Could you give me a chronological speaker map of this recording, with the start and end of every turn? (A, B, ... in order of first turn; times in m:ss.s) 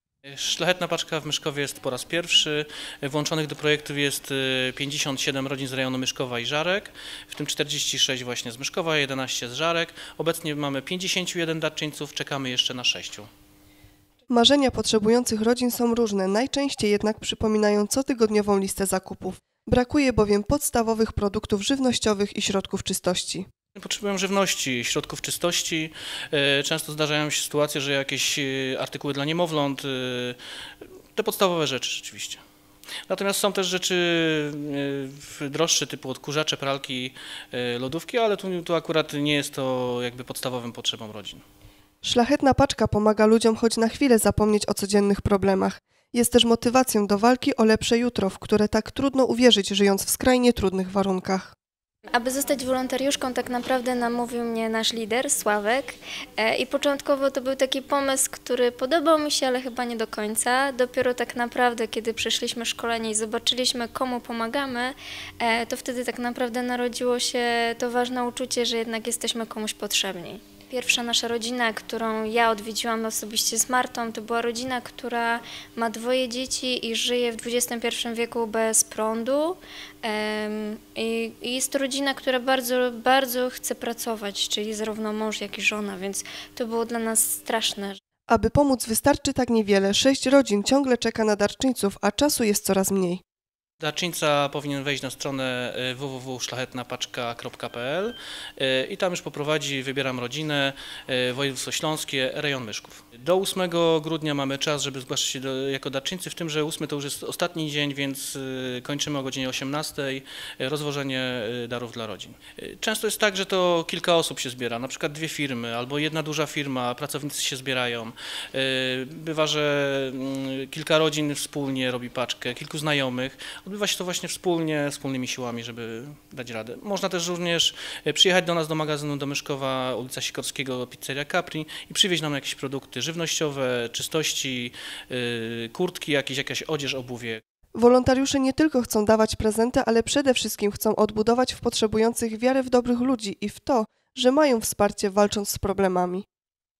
0:00.2-0:13.3 A
0:14.3-0:23.5 B
0:23.8-0:30.4 A
0:31.2-0:32.4 A
0:33.1-0:41.4 A
0:42.0-0:51.6 B
0:52.1-1:28.0 C
1:28.3-1:33.2 B
1:33.8-2:17.4 A
2:17.8-2:26.3 B